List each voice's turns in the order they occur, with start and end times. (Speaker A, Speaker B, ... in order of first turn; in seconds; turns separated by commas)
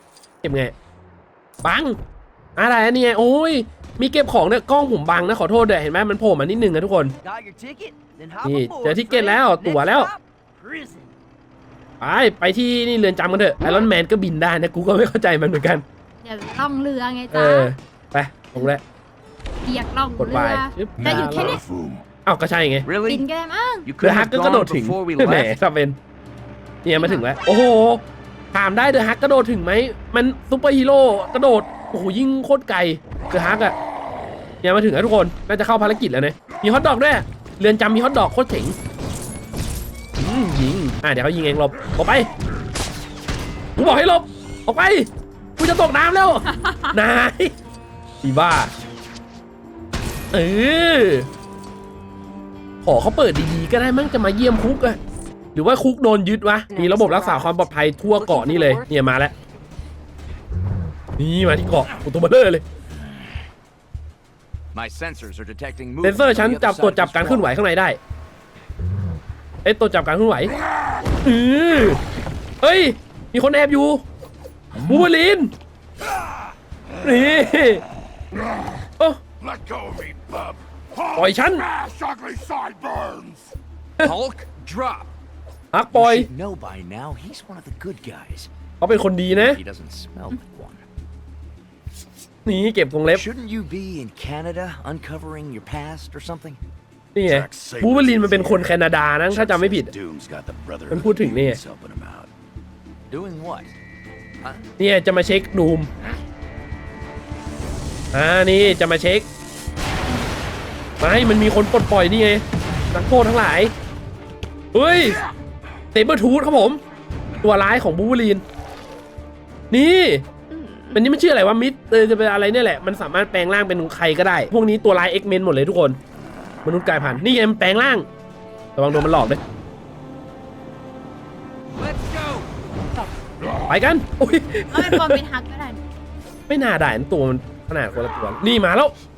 Speaker A: 0.4-0.7, Speaker A: 1.6-2.0, Speaker A: 2.6-7.1, Speaker B: 7.2-11.1, Speaker A: 8.4-10.1, Speaker A: 12.0-15.8, Speaker C: 16.2-17.7, Speaker A: 17.3-18.8, Speaker C: 19.6-21.6, Speaker A: 20.2-21.6, Speaker D: 21.0-22.0, Speaker A: 22.2-22.9, Speaker E: 22.9-23.2, Speaker C: 23.1-23.9, Speaker E: 23.9-25.6, Speaker A: 24.0-26.0, Speaker A: 26.9-28.0, Speaker C: 27.0-27.3, Speaker A: 28.5-33.8, Speaker A: 34.6-38.8, Speaker A: 40.2-42.3, Speaker A: 43.8-47.5, Speaker C: 46.5-46.9, Speaker A: 48.2-48.7, Speaker A: 50.3-51.3, Speaker A: 52.8-55.0, Speaker A: 55.5-59.3, Speaker E: 56.7-57.5, Speaker E: 58.2-58.9, Speaker A: 61.2-62.6, Speaker E: 64.7-67.5, Speaker A: 66.0-68.0, Speaker A: 69.7-70.5, Speaker A: 71.2-72.0, Speaker A: 72.6-74.0, Speaker A: 74.8-75.5, Speaker A: 77.0-77.8, Speaker D: 77.0-77.4, Speaker D: 79.4-83.5, Speaker A: 81.2-81.7, Speaker E: 84.0-85.1, Speaker A: 85.7-86.3, Speaker E: 85.9-88.5, Speaker A: 88.8-89.6, Speaker E: 89.3-90.8, Speaker A: 92.5-93.2, Speaker E: 93.1-96.6, Speaker A: 97.2-99.9, Speaker E: 97.3-98.8, Speaker E: 99.3-102.3, Speaker A: 100.9-101.6, Speaker E: 103.1-103.7, Speaker A: 104.8-105.9, Speaker A: 108.1-109.3, Speaker A: 111.0-113.7, Speaker A: 114.7-115.2, Speaker A: 115.9-116.8, Speaker A: 117.4-118.4, Speaker A: 119.7-120.2, Speaker A: 120.9-126.0, Speaker A: 126.7-128.1, Speaker A: 128.8-129.4, Speaker E: 131.7-132.5, Speaker A: 133.7-135.2, Speaker C: 134.7-135.8, Speaker A: 136.5-138.9